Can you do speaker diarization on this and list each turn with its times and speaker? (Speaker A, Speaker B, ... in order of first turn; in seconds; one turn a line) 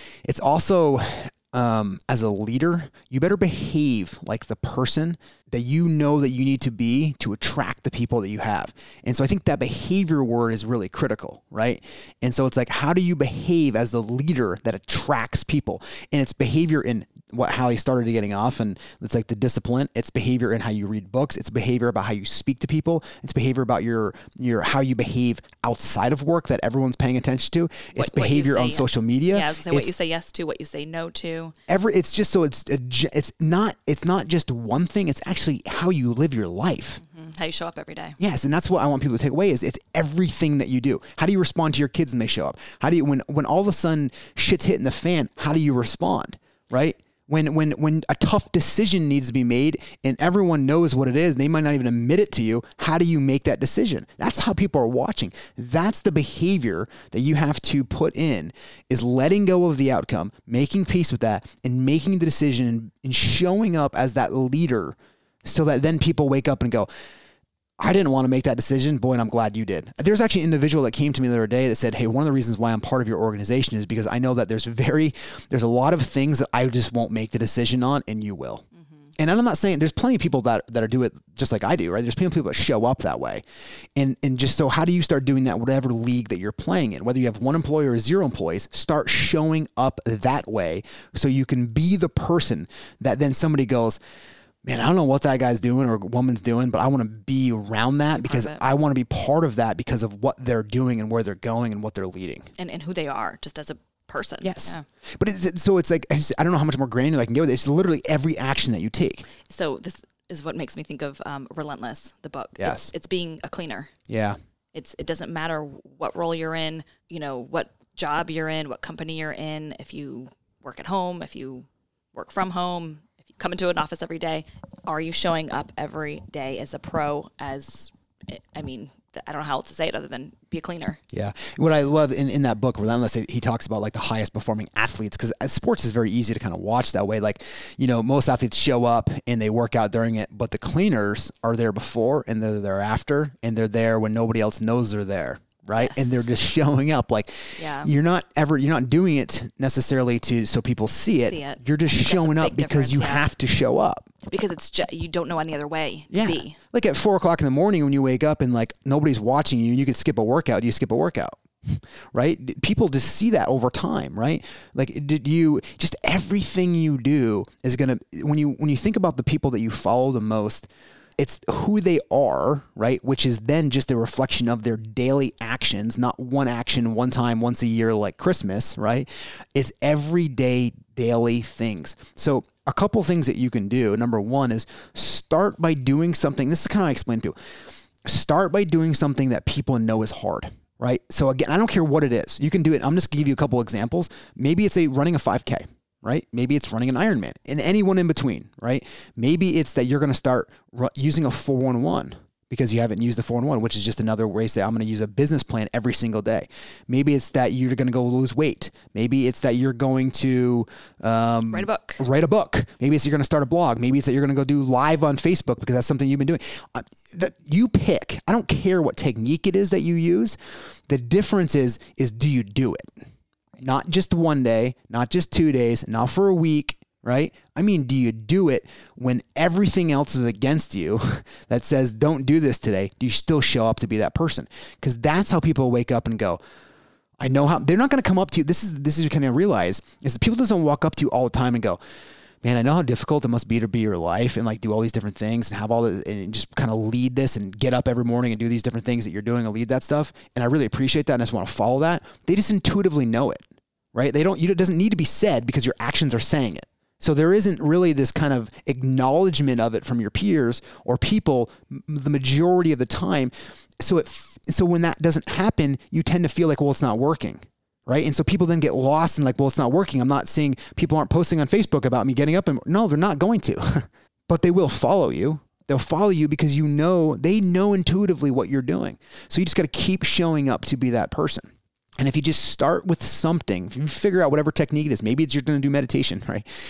Speaker A: 0.2-29.9
Speaker B: 27.9-31.6
Speaker A: 31.7-37.0
Speaker B: 37.0-38.2
Speaker A: 38.2-66.9
Speaker A: 67.8-78.7
Speaker B: 78.8-79.1
Speaker A: 79.2-83.4
Speaker A: 84.0-94.0
Speaker A: 94.6-102.5
Speaker B: 98.2-98.6
Speaker B: 102.6-104.8
Speaker A: 104.4-109.3
Speaker B: 109.4-113.9
Speaker A: 112.6-112.9
Speaker A: 114.1-114.4
Speaker B: 114.7-131.0
Speaker A: 131.1-154.1
Speaker B: 145.8-146.2
Speaker B: 147.6-147.9
Speaker B: 151.3-153.3
Speaker B: 154.2-156.6
Speaker A: 156.1-170.7
Speaker A: 171.2-187.3
Speaker A: 188.0-220.4
Speaker B: 211.5-212.0
Speaker A: 220.9-222.9
Speaker A: 223.6-236.4
Speaker A: 237.2-241.8
Speaker A: 242.4-286.4